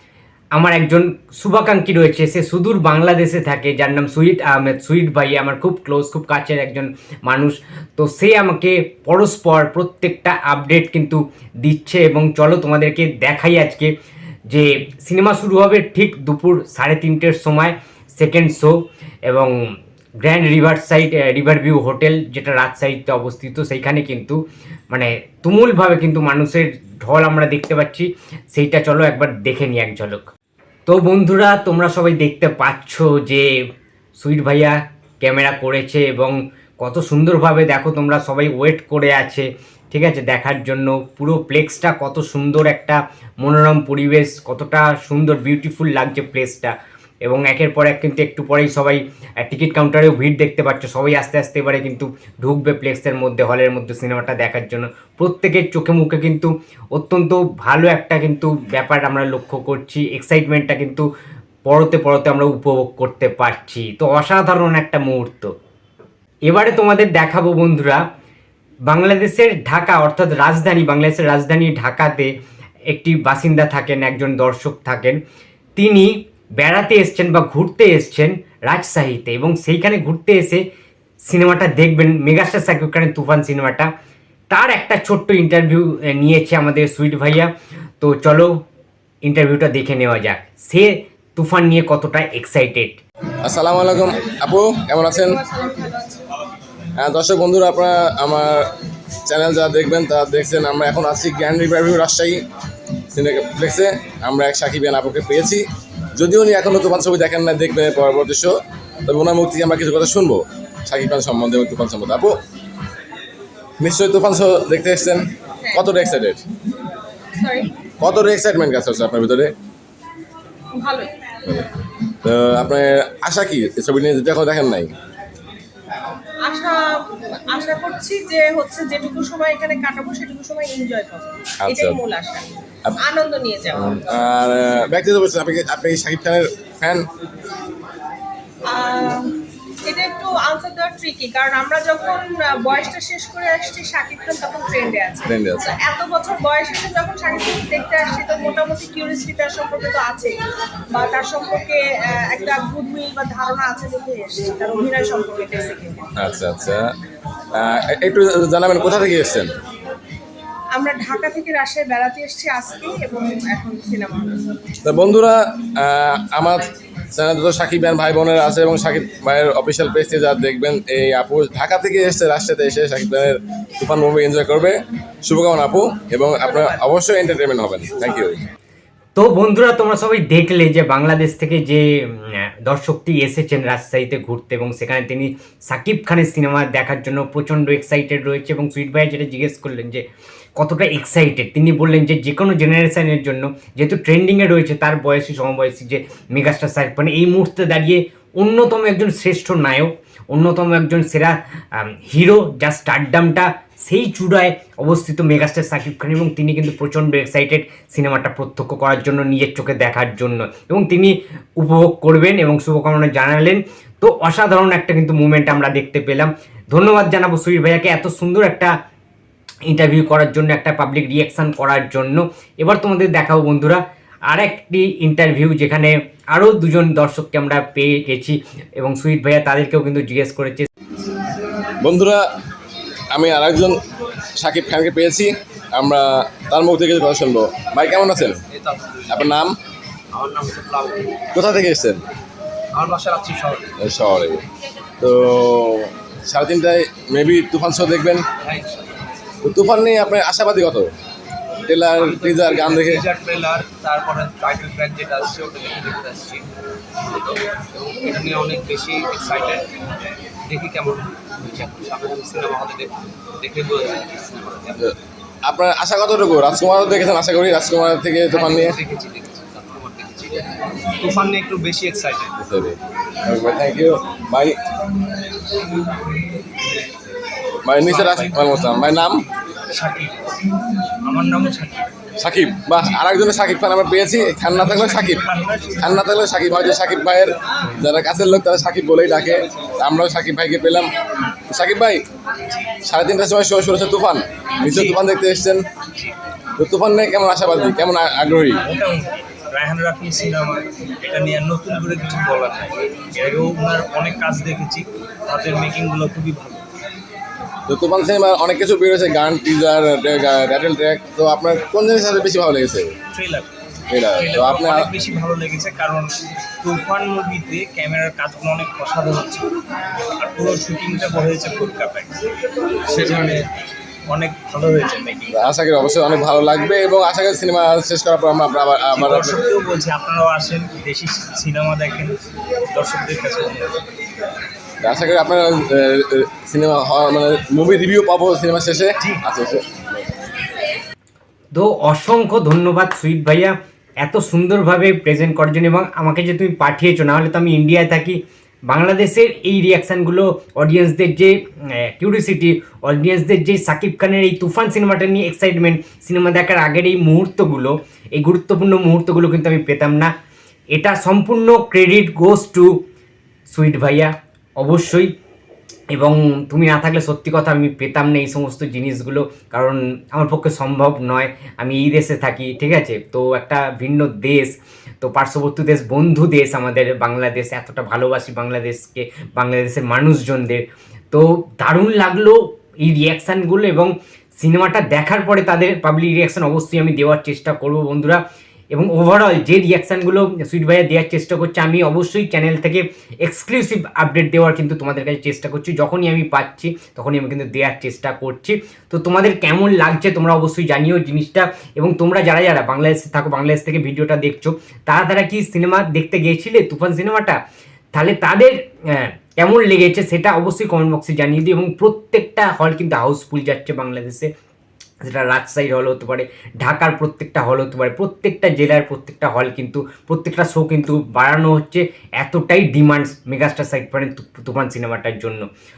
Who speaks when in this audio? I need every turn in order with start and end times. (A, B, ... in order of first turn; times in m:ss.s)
0:00.5-0:13.9 A
0:14.5-0:19.5 A
0:20.2-0:24.4 A
0:24.9-0:30.2 A
0:30.9-0:33.5 A
0:34.2-0:46.7 A
0:47.2-1:01.0 A
1:01.6-1:05.5 A
1:06.4-1:08.0 A
1:08.8-1:12.3 A
1:12.9-1:15.2 A
1:15.8-1:20.6 A
1:21.3-1:23.9 A
1:24.5-1:28.5 A
1:29.2-1:33.0 A
1:33.4-1:35.4 B
1:35.1-1:36.3 C
1:37.0-1:38.7 B
1:39.2-1:42.4 B
1:43.1-1:52.4 B
1:53.8-1:56.4 B
1:57.4-1:57.7 C
1:58.0-1:59.5 B
2:00.7-2:01.1 C
2:02.2-2:04.9 B
2:06.4-2:12.5 C
2:11.6-2:12.0 B
2:13.0-2:14.0 C
2:13.8-2:17.1 B
2:18.7-2:30.3 C
2:25.2-2:25.7 B
2:30.9-2:36.1 C
2:36.2-2:36.9 B
2:37.5-2:39.5 B
2:40.7-2:44.4 C
2:44.8-2:58.4 B
2:59.2-3:10.0 A
3:10.6-3:38.7 A
3:39.7-3:50.7 A
3:51.8-3:52.2 B
3:53.1-3:53.8 B
3:54.4-3:58.4 B
3:57.9-3:59.3 D
3:59.1-3:59.6 B
4:00.1-4:01.1 D
4:01.3-4:02.0 B
4:02.7-4:03.7 D
4:03.8-4:04.4 B
4:05.0-4:08.2 B
4:08.4-4:09.0 D
4:09.4-4:10.9 B
4:11.7-4:13.0 B
4:12.0-4:16.5 D
4:12.7-4:13.7 E
4:17.0-4:19.7 D
4:20.4-4:24.7 D
4:21.0-4:21.4 E
4:24.8-4:28.8 B
4:28.3-4:30.5 D
4:30.4-4:32.3 E
4:31.2-4:32.3 D
4:32.4-4:34.6 B
4:37.6-4:39.2 B
4:37.8-4:38.9 E
4:39.7-4:40.2 E
4:41.0-4:41.9 E
4:42.2-4:45.2 B
4:44.5-4:46.0 E
4:45.8-4:50.9 B
4:51.5-4:52.0 B
4:52.8-4:55.7 B
4:54.6-4:55.0 E
4:56.6-4:58.6 B
4:58.6-5:06.6 E
5:07.7-5:13.0 B
5:13.1-5:13.5 E
5:13.9-5:14.9 B
5:14.1-5:19.5 E
5:20.2-5:22.2 E
5:22.8-5:23.5 E
5:24.1-5:25.4 E
5:25.3-5:29.4 B
5:28.9-5:32.2 E
5:32.7-5:33.7 E
5:34.8-5:39.8 B
5:41.5-6:00.1 A
6:00.7-6:02.7 A
6:03.5-6:05.1 A
6:05.9-6:28.2 A
6:28.7-6:47.4 A
6:47.9-6:54.3 A
6:55.0-7:05.4 A